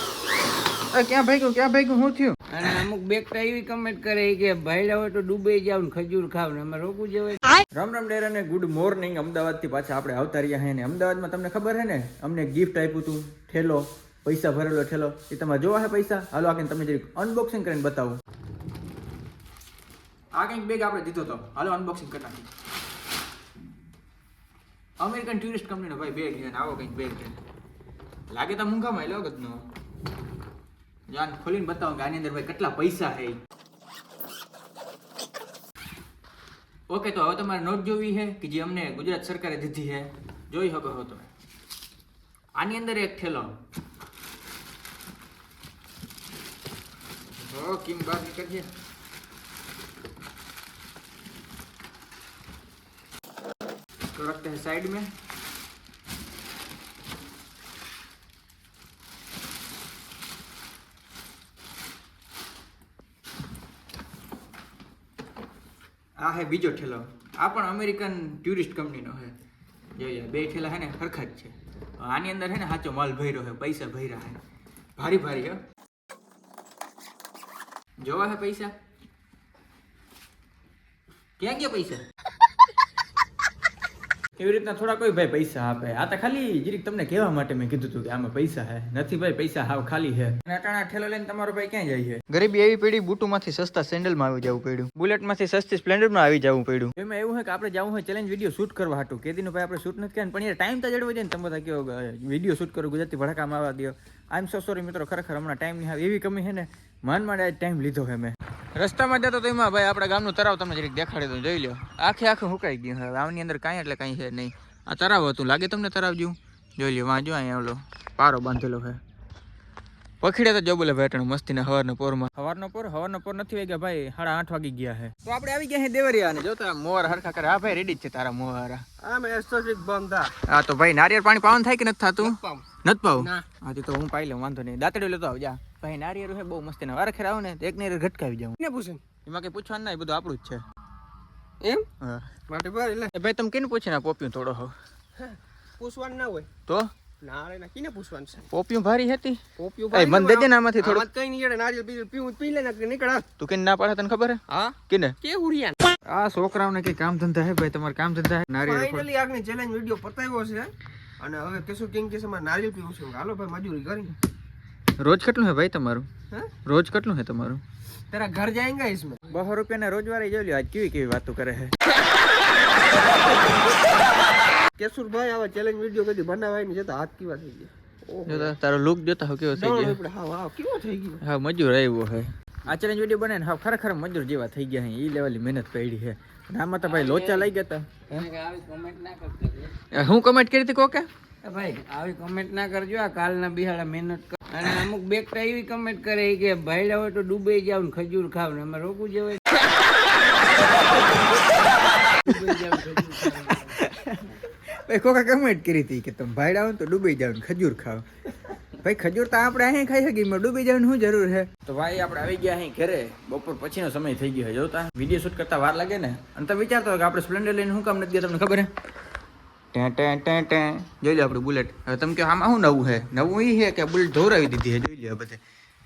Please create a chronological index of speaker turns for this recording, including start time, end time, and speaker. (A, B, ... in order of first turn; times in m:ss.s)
0:00.9-0:02.4 A
0:02.5-0:07.6 B
0:07.7-0:18.2 A
0:20.3-0:22.5 A
0:25.0-0:27.4 A
0:28.3-0:29.7 A
0:31.1-0:33.4 A
0:36.9-0:41.3 A
0:42.6-0:43.6 A
0:47.4-0:48.7 A
0:54.1-0:55.1 A
1:06.2-1:09.4 A
1:10.0-1:14.4 A
1:15.0-1:15.6 A
1:18.0-1:18.7 A
1:21.4-1:22.0 A
1:24.4-1:59.0 A
2:00.2-2:08.8 A
2:09.0-2:10.4 C
2:10.5-2:18.6 A
2:12.2-2:12.7 C
2:13.2-2:13.4 C
2:18.6-2:19.0 C
2:19.2-2:20.6 A
2:21.6-2:21.9 C
2:22.0-2:22.3 A
2:22.5-2:23.1 C
2:23.1-2:24.8 A
2:25.2-2:26.5 C
2:27.2-2:28.5 C
2:28.5-2:29.4 A
2:29.6-2:33.3 C
2:29.9-2:31.1 A
2:33.4-2:35.2 A
2:34.5-2:35.8 C
2:36.1-2:39.1 A
2:38.7-2:44.2 C
2:45.0-2:46.1 A
2:46.6-2:47.6 A
2:48.1-2:49.3 C
2:49.3-2:51.7 A
2:53.1-2:54.0 C
2:54.8-2:58.6 C
2:58.3-3:00.0 A
2:59.5-3:01.2 C
3:01.2-3:08.3 A
3:06.8-3:07.5 B
3:08.1-3:09.8 B
3:09.9-3:11.1 A
3:11.4-3:19.6 B
3:21.4-3:23.8 B
3:23.5-3:28.0 A
3:28.8-3:38.7 A
3:39.7-3:45.4 A